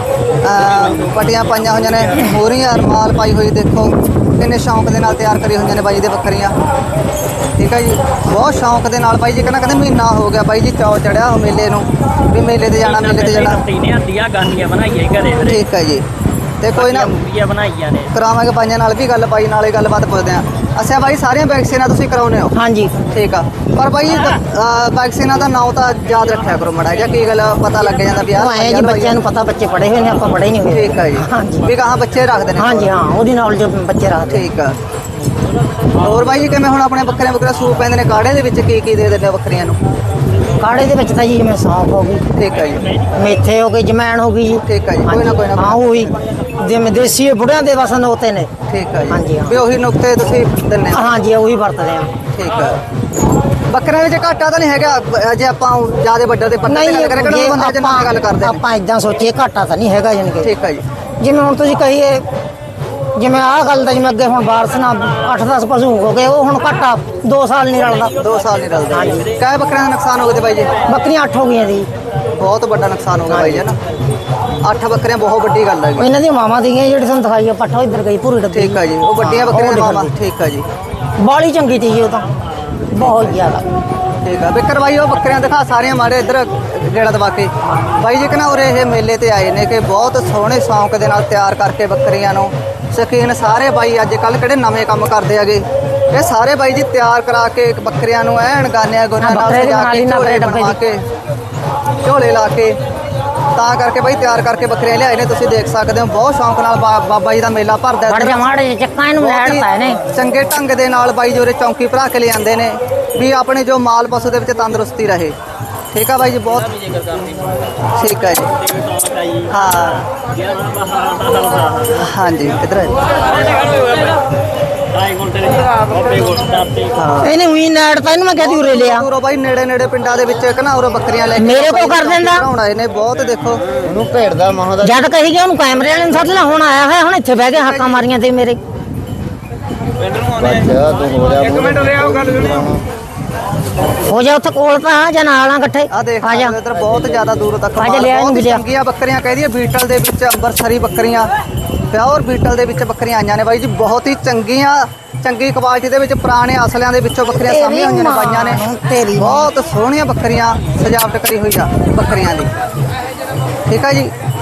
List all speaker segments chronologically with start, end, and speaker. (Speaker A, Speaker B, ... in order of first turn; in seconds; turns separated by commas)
Speaker A: 0.4-6.5, Speaker A: 7.5-13.6, Speaker B: 12.8-15.6, Speaker A: 15.4-16.0, Speaker A: 16.6-17.2, Speaker B: 16.8-18.1, Speaker A: 18.1-22.5, Speaker C: 22.5-22.9, Speaker A: 23.1-29.2, Speaker C: 28.3-31.7, Speaker A: 30.7-33.0, Speaker C: 32.6-34.5, Speaker A: 34.3-34.8, Speaker A: 36.0-39.8, Speaker C: 40.6-42.2, Speaker A: 42.3-42.9, Speaker C: 43.1-48.5, Speaker A: 44.6-46.1, Speaker A: 48.7-51.1, Speaker C: 49.1-49.6, Speaker C: 50.9-52.1, Speaker A: 52.3-52.8, Speaker A: 53.7-58.6, Speaker C: 56.7-60.5, Speaker A: 60.4-60.8, Speaker C: 61.2-62.2, Speaker C: 63.1-68.2, Speaker A: 68.2-70.7, Speaker C: 68.9-69.3, Speaker C: 70.8-71.9, Speaker A: 72.3-73.8, Speaker C: 73.3-73.7, Speaker A: 74.6-76.1, Speaker C: 76.0-80.1, Speaker A: 78.5-80.6, Speaker C: 81.2-82.3, Speaker C: 82.9-83.7, Speaker A: 83.0-83.4, Speaker A: 84.2-101.0, Speaker C: 99.2-100.8, Speaker A: 102.0-102.8, Speaker A: 103.5-108.5, Speaker C: 108.1-110.0, Speaker A: 109.2-115.3, Speaker A: 115.9-116.8, Speaker B: 116.8-117.4, Speaker A: 118.0-118.5, Speaker B: 118.7-119.5, Speaker A: 119.5-120.1, Speaker B: 120.3-121.9, Speaker A: 121.9-123.0, Speaker B: 123.4-124.1, Speaker B: 124.9-127.0, Speaker A: 126.9-127.3, Speaker C: 127.2-129.1, Speaker A: 128.4-133.7, Speaker C: 131.3-132.4, Speaker D: 133.8-134.7, Speaker C: 134.8-138.6, Speaker A: 137.5-138.1, Speaker B: 140.1-140.7, Speaker D: 140.4-142.8, Speaker C: 144.0-146.6, Speaker A: 145.9-151.3, Speaker C: 147.8-148.6, Speaker A: 151.9-158.6, Speaker C: 157.4-159.5, Speaker A: 159.2-162.5, Speaker A: 163.7-164.1